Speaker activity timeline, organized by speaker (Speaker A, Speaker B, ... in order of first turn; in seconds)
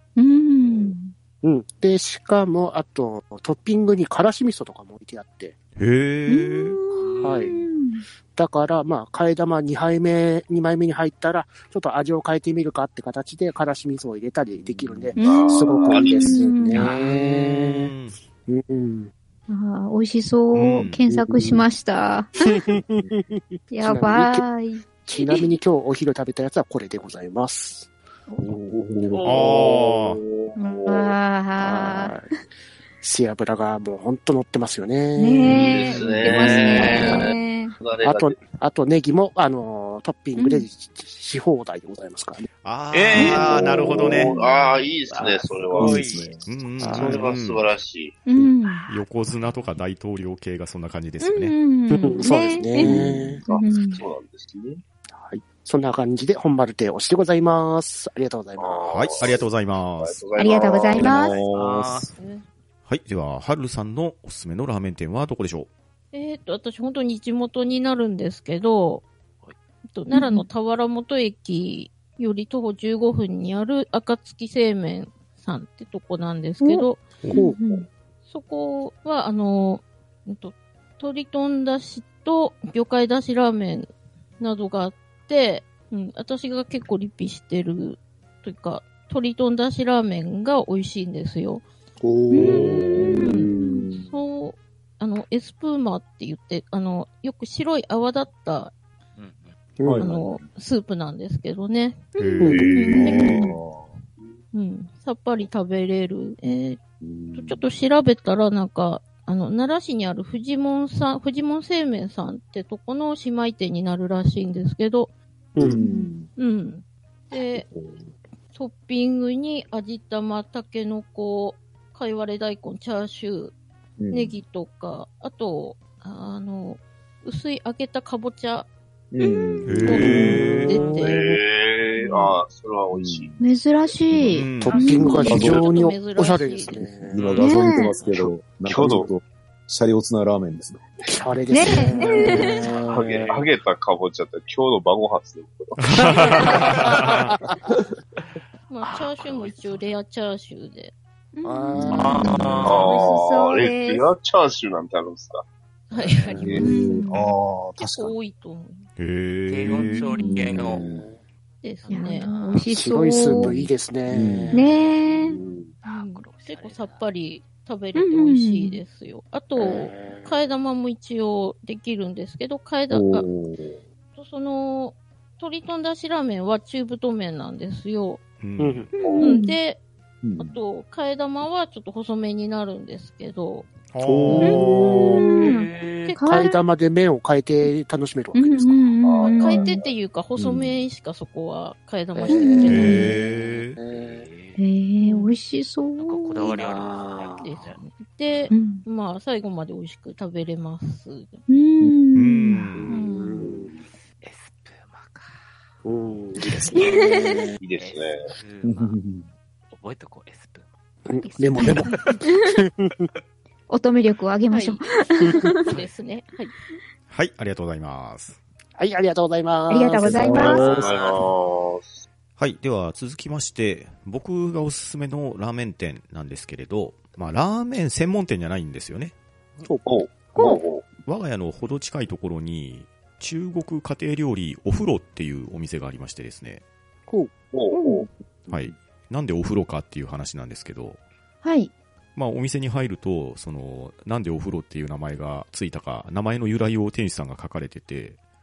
Speaker A: 0.1-1.1, 6.3-8.0, 15.2-16.9, 19.5-22.4, 23.7-25.0, 30.6-32.1, 35.1-37.8, 40.4-40.6, 43.2-43.6, 48.3-48.9, 51.2-54.0, 60.4-61.4, 70.1-70.5, 76.6-77.9, 102.2-103.3, 115.8-116.1, 129.2-129.8, 132.0-132.3, 133.4-135.4, 137.4-137.9, 141.5-142.6, 151.3-152.3, 152.8-154.1, 156.6-157.3, 160.2-160.5, 161.9-163.6, 164.5-165.4, 167.9-168.8, 178.9-179.6, 184.4-186.6, 188.3-189.8, 192.3-193.1, 194.6-196.5, 198.5-198.8, 201.5-203.4, 206.8-207.3, 211.2-212.4, 213.7-215.6, 219.7-220.6, 237.7-238.1, 241.4-241.7
Speaker B: 1.4-5.6, 7.2-7.6, 8.3-17.9, 18.5-19.1, 21.1-21.6, 22.4-24.4, 25.0-27.9, 31.6-32.3, 33.0-37.3, 38.0-42.5, 46.8-47.2, 51.9-53.4, 55.1-59.5, 77.3-77.6, 92.0-93.2, 99.8-100.1, 102.4-103.4, 115.5-115.8, 129.9-131.3, 134.5-137.2, 141.1-143.5, 146.9-147.6, 151.4-152.7, 160.5-161.2, 162.7-164.6, 169.6-170.5, 178.6-178.9, 184.0-185.5, 186.2-189.1, 192.2-193.2, 193.7-194.3, 196.5-197.5, 202.7-203.7, 205.8-207.6, 211.1-213.1, 218.8-220.8, 229.6-230.0, 237.1-237.3
Speaker C: 5.8-6.8, 17.1-18.2, 20.5-21.0, 29.2-30.2, 42.6-44.4, 46.4-47.7, 48.8-51.5, 58.9-60.3, 62.9-65.7, 92.3-93.0, 102.2-103.5, 129.6-130.8, 134.2-134.8, 145.8-147.3, 159.0-160.1, 178.4-178.9, 183.9-185.3, 192.7-193.8, 202.1-203.0, 217.1-218.4, 222.4-229.1, 230.5-236.6, 238.5-241.0, 242.1-248.2
Speaker D: 7.0-7.5, 16.8-17.1, 42.9-46.3, 49.2-49.8, 61.0-62.2, 99.2-99.5, 137.2-138.3, 141.5-141.8, 142.7-143.0, 146.1-146.9, 148.8-149.9, 151.9-153.1, 155.9-156.3, 159.5-160.8, 161.8-162.3, 164.5-167.1, 185.2-186.2, 193.8-194.6, 196.0-198.5, 204.2-209.0, 209.7-210.7, 211.3-212.1, 220.3-221.3
Speaker E: 14.6-15.2, 22.8-23.1, 28.4-29.4, 43.7-44.1, 45.7-46.4, 52.8-53.4, 93.0-94.1, 99.8-100.3, 103.0-103.9, 107.0-107.6, 115.6-116.3, 117.5-118.1, 124.0-124.4, 129.1-130.3, 132.9-133.5, 135.1-135.7, 136.9-140.9, 151.8-152.1, 156.3-158.2, 160.3-161.0, 163.4-164.6, 172.9-173.7, 180.2-180.5, 190.3-190.8, 208.6-209.3, 220.0-220.6
Speaker F: 15.2-16.4, 29.1-31.1, 35.5-38.4, 44.0-46.1, 46.8-48.2, 53.5-54.8, 58.6-62.0, 102.4-103.4, 130.9-133.3, 138.7-139.1, 142.8-146.4, 152.6-155.4, 165.3-165.7, 179.0-179.4, 189.0-189.9, 203.4-203.8, 207.6-208.3, 220.5-222.0, 229.8-230.8, 237.5-238.0
Speaker G: 62.1-62.4, 66.1-69.0, 69.9-77.2, 78.2-91.7, 92.4-98.7, 100.0-102.1, 104.5-106.8, 107.3-115.1, 116.3-117.7, 118.5-123.5, 124.1-128.7, 129.8-131.3, 134.9-136.9, 148.7-150.9, 152.6-153.2, 155.9-157.0, 157.8-158.8, 159.8-160.0, 161.6-162.7, 165.8-173.3, 174.2-178.2, 179.2-179.8, 180.4-183.8, 186.1-186.5, 189.2-193.1, 195.0-195.3, 197.4-201.4, 214.5-214.8, 215.6-216.5